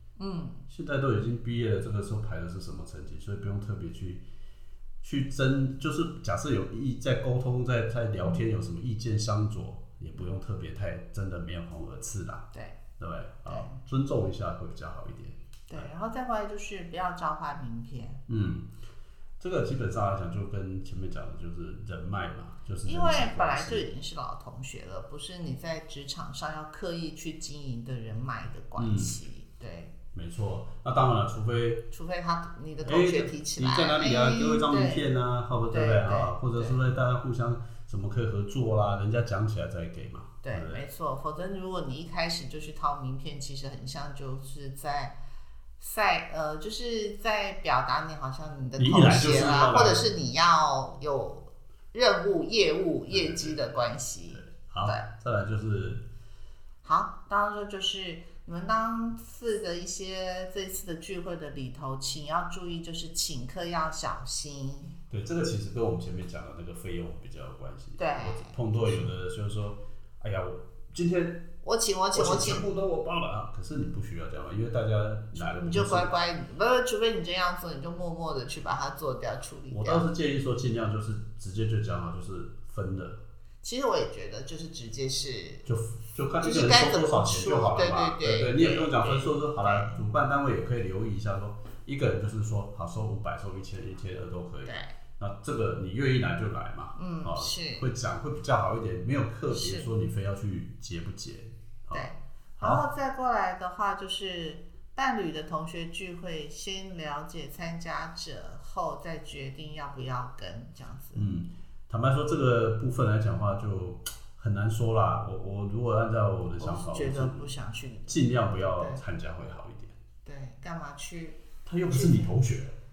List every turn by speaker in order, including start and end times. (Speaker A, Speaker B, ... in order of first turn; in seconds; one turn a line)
Speaker A: 0.2-0.7
Speaker B: 0.7-4.2
Speaker B: 5.0-12.5
Speaker A: 12.5-12.8
Speaker B: 13.0-15.9
Speaker A: 13.5-13.8
Speaker A: 15.7-18.2
Speaker B: 18.3-18.7
Speaker B: 19.4-23.9
Speaker A: 22.9-29.9
Speaker B: 28.8-29.1
Speaker B: 30.1-31.9
Speaker A: 31.9-35.1
Speaker B: 32.8-40.8
Speaker A: 35.7-36.8
Speaker A: 40.4-45.2
Speaker A: 45.8-55.1
Speaker B: 48.8-50.1
Speaker B: 53.1-53.6
Speaker B: 54.3-56.0
Speaker A: 56.8-65.0
Speaker B: 65.1-71.5
Speaker A: 68.0-69.1
Speaker A: 71.6-72.7
Speaker B: 72.1-76.1
Speaker A: 75.3-80.1
Speaker B: 79.7-83.2
Speaker A: 83.6-85.7
Speaker B: 85.7-102.8
Speaker A: 86.4-90.0
Speaker A: 94.7-94.9
Speaker A: 97.0-97.9
Speaker A: 99.5-99.9
Speaker A: 101.9-111.3
Speaker B: 111.2-117.5
Speaker A: 116.6-119.0
Speaker B: 118.1-120.0
Speaker A: 120.2-122.3
Speaker B: 121.7-122.8